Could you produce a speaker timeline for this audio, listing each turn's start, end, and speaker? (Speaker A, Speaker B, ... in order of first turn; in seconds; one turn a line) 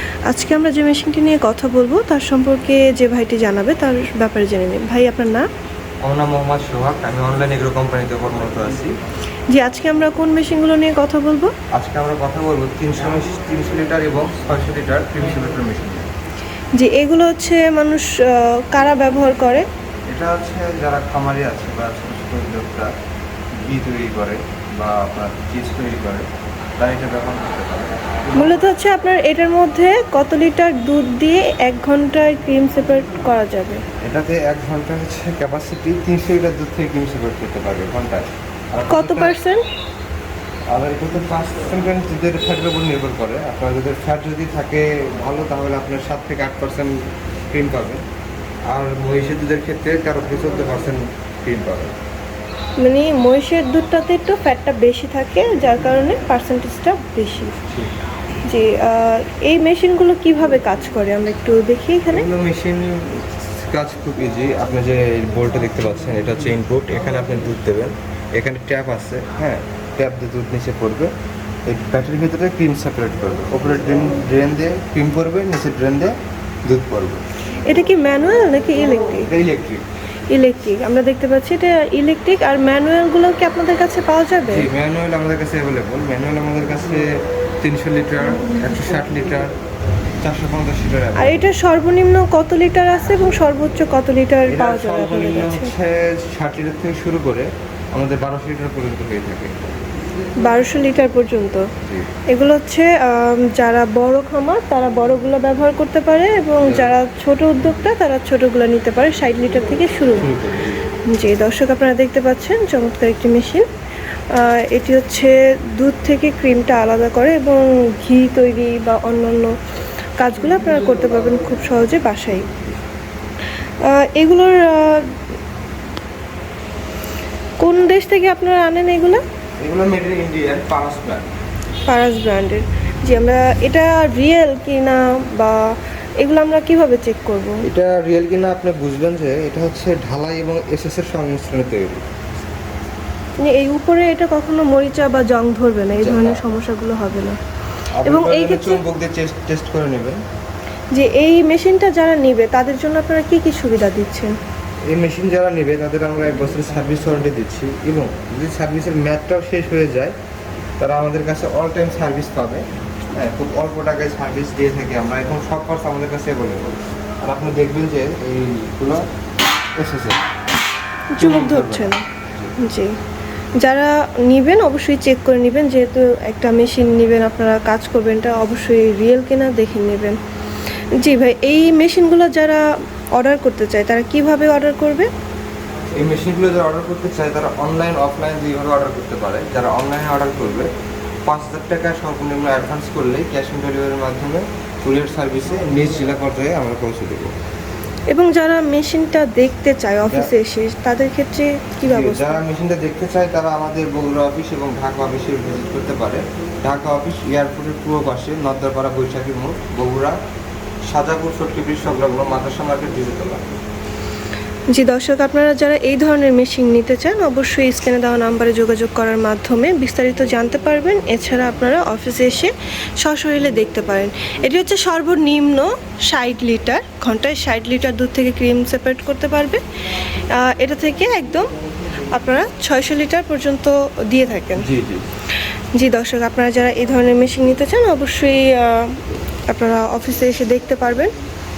Speaker A: 0.3-5.4
Speaker B: 6.0-8.9
Speaker A: 9.5-11.5
Speaker B: 11.7-16.1
Speaker A: 16.8-19.6
Speaker B: 20.1-22.9
Speaker B: 23.6-26.3
Speaker B: 26.8-28.6
Speaker A: 28.3-33.8
Speaker B: 34.0-39.4
Speaker A: 38.9-39.6
Speaker B: 40.7-46.9
Speaker B: 47.5-48.0
Speaker B: 48.7-51.9
Speaker A: 52.8-57.5
Speaker A: 58.5-62.3
Speaker B: 62.1-71.1
Speaker B: 71.7-77.2
Speaker A: 77.6-79.3
Speaker B: 79.3-79.8
Speaker A: 80.3-84.7
Speaker B: 84.5-87.0
Speaker B: 87.6-89.5
Speaker B: 90.2-91.5
Speaker A: 91.2-95.7
Speaker B: 94.5-99.8
Speaker A: 100.4-101.6
Speaker A: 102.3-110.3
Speaker B: 106.6-106.9
Speaker B: 110.2-110.8
Speaker A: 111.1-113.7
Speaker A: 114.3-119.5
Speaker A: 120.2-122.5
Speaker A: 123.8-125.1
Speaker A: 127.6-129.2
Speaker B: 129.6-131.3
Speaker A: 131.9-135.6
Speaker A: 136.2-137.6
Speaker B: 137.6-142.0
Speaker A: 143.4-147.4
Speaker B: 146.0-146.4
Speaker B: 147.9-150.2
Speaker A: 148.0-148.8
Speaker A: 150.9-154.3
Speaker B: 154.9-160.1
Speaker B: 160.8-169.0
Speaker B: 169.8-170.2
Speaker A: 171.1-172.0
Speaker B: 171.2-172.5
Speaker A: 172.6-172.9
Speaker A: 173.6-180.2
Speaker A: 181.0-182.6
Speaker A: 183.2-185.1
Speaker B: 186.0-190.7
Speaker B: 191.2-197.3
Speaker A: 198.1-202.4
Speaker B: 201.8-210.2
Speaker B: 210.9-213.4
Speaker A: 214.7-231.5
Speaker A: 232.1-234.7
Speaker B: 234.6-235.0
Speaker A: 235.8-241.1